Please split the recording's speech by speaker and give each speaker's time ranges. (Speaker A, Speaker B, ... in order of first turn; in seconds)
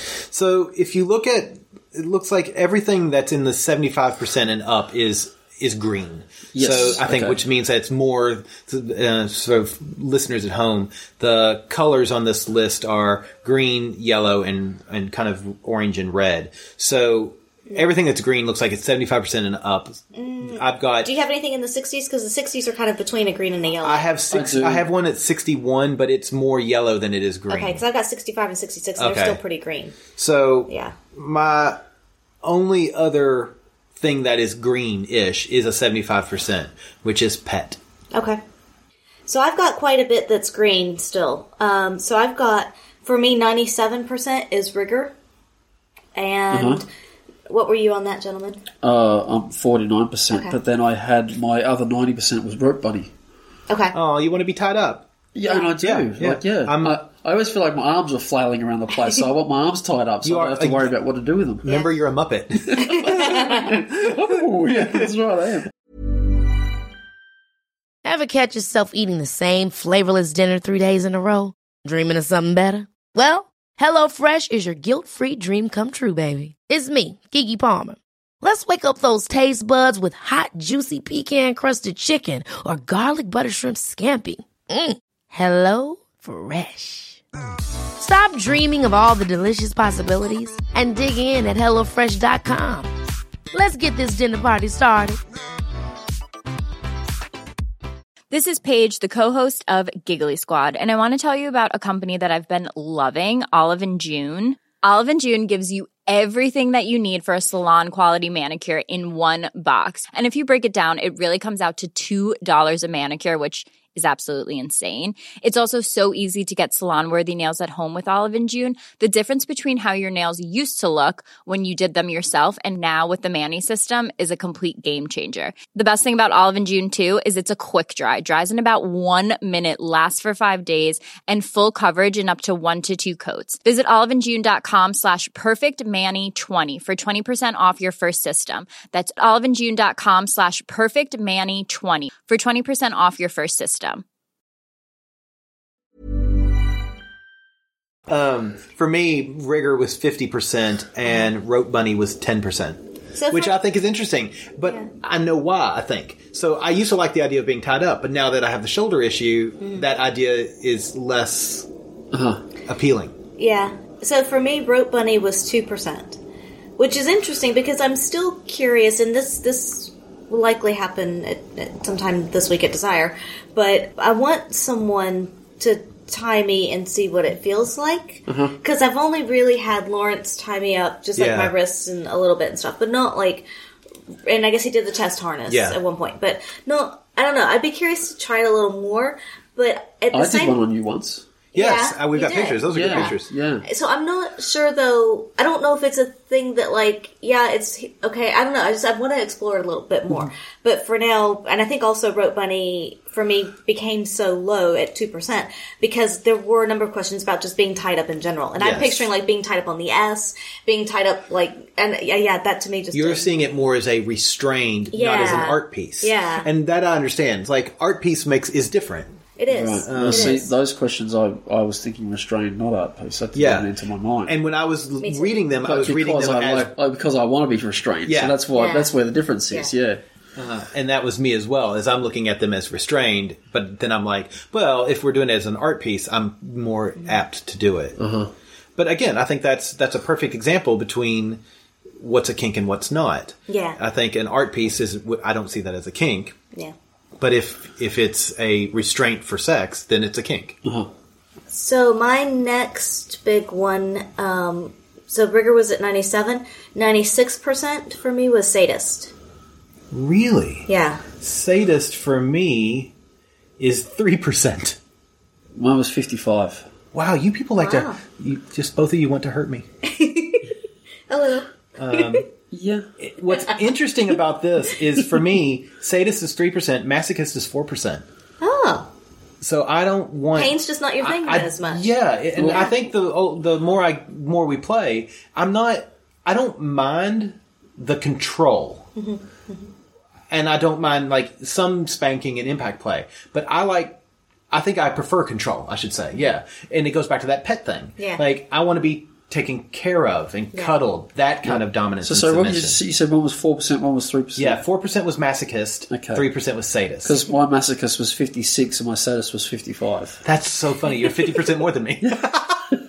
Speaker A: 0.2-21.1, 23.8-27.8, 29.0-29.4, 30.1-31.8, 32.4-37.8, 53.9-55.1, 55.8-57.0, 60.2-60.9, 61.6-63.4, 64.7-65.1, 148.1-161.7, 162.7-163.2, 181.2-181.5, 185.5-185.8, 191.5-193.3, 208.6-209.1, 212.9-219.2, 219.9-220.4, 223.3-223.7, 224.2-226.7, 228.1-228.4, 230.4-238.0, 238.8-241.4, 242.0-246.4, 247.2-250.6, 259.9-260.7, 261.2-262.9, 263.6-264.8, 266.9-269.7, 271.8-272.3, 273.0-278.0, 279.4-288.9, 290.3-294.0, 294.5-302.8, 304.4-307.2, 310.2-312.7
Speaker B: 6.5-7.4, 24.3-24.9, 46.5-46.8, 48.8-53.1, 55.4-61.6, 62.7-65.7, 162.1-162.4, 178.3-178.6, 190.1-191.3, 192.7-193.7, 219.5-224.3, 225.6-230.0, 238.0-238.3, 265.6-266.7, 272.5-272.9, 282.4-282.7, 301.5-304.6, 305.9-306.3, 307.0-310.2
Speaker C: 20.1-24.1, 27.5-30.0, 30.7-30.9, 38.1-38.4, 39.3-45.1, 46.1-46.9, 47.5-48.6, 50.3-50.6, 53.7-54.0, 62.9-63.7, 153.2-153.6, 154.7-154.9, 163.4-166.2, 166.8-183.4, 184.3-190.6, 191.5-193.1, 193.7-213.3, 214.9-216.5, 219.4-220.5, 225.0-225.3, 228.5-228.9, 243.5-243.8, 251.5-259.1, 260.7-261.0, 267.6-268.0, 269.8-270.5, 271.1-272.2, 278.4-278.9, 280.3-281.9, 289.0-289.7, 298.0-298.2
Speaker D: 68.0-87.2, 88.0-92.9, 93.5-95.2
Speaker E: 98.3-144.0